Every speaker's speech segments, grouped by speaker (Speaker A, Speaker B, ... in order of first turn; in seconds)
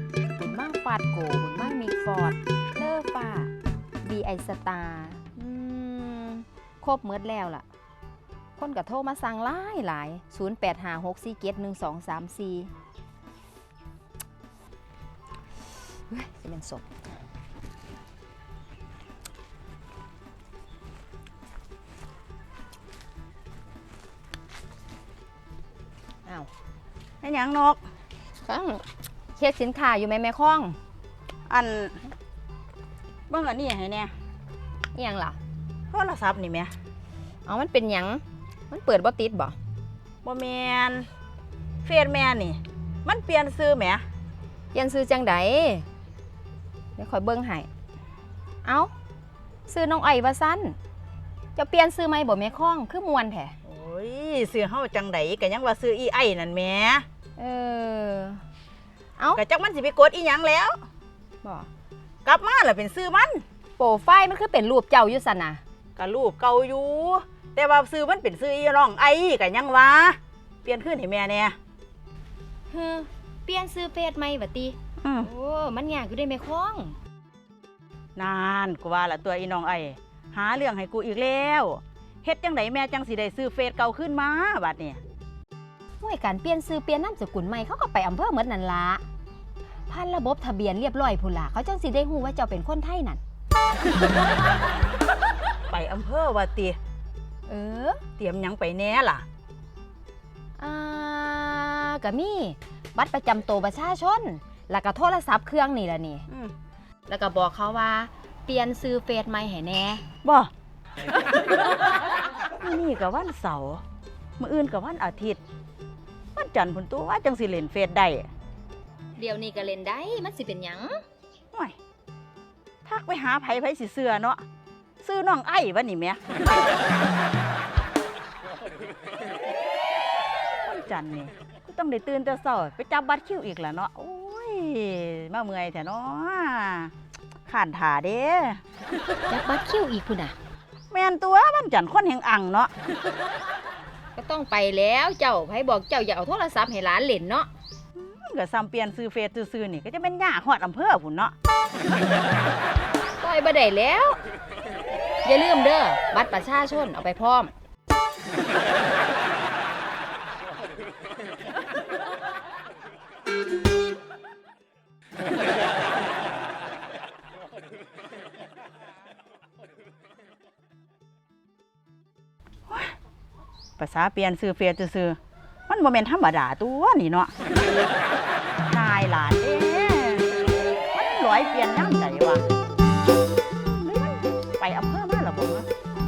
Speaker A: 0.4-3.5, 4.0-7.6, 8.6-12.7, 16.1-16.9, 28.4-28.8, 29.4-30.8, 34.9-35.4, 37.5-39.5, 44.7-45.9, 47.0-47.7, 48.6-48.9, 49.7-50.8, 51.5-53.5, 57.4-58.4, 61.4-61.7, 63.8-65.6, 72.7-77.0, 86.0-89.0, 89.9-93.2, 97.5-98.0, 100.6-106.3, 107.1-110.0, 119.2-121.0, 139.3-140.3, 144.1-147.5, 153.2-154.2, 155.2-157.5
Speaker B: 27.2-27.8, 31.5-32.0, 33.3-34.1, 35.9-36.7, 40.2-41.1, 41.8-44.0, 53.6-57.0, 59.3-60.8, 62.2-63.4, 66.0-71.5, 75.0-75.3, 78.2-85.0, 95.7-96.8, 98.2-99.2, 110.2-110.5, 112.6-113.8, 114.4-115.4, 116.3-118.3, 122.8-124.4, 125.0-126.3, 130.6-136.9, 137.5-138.6, 140.9-142.7, 147.9-151.3, 172.7-172.9, 173.8-177.3, 178.7-182.4, 183.7-185.7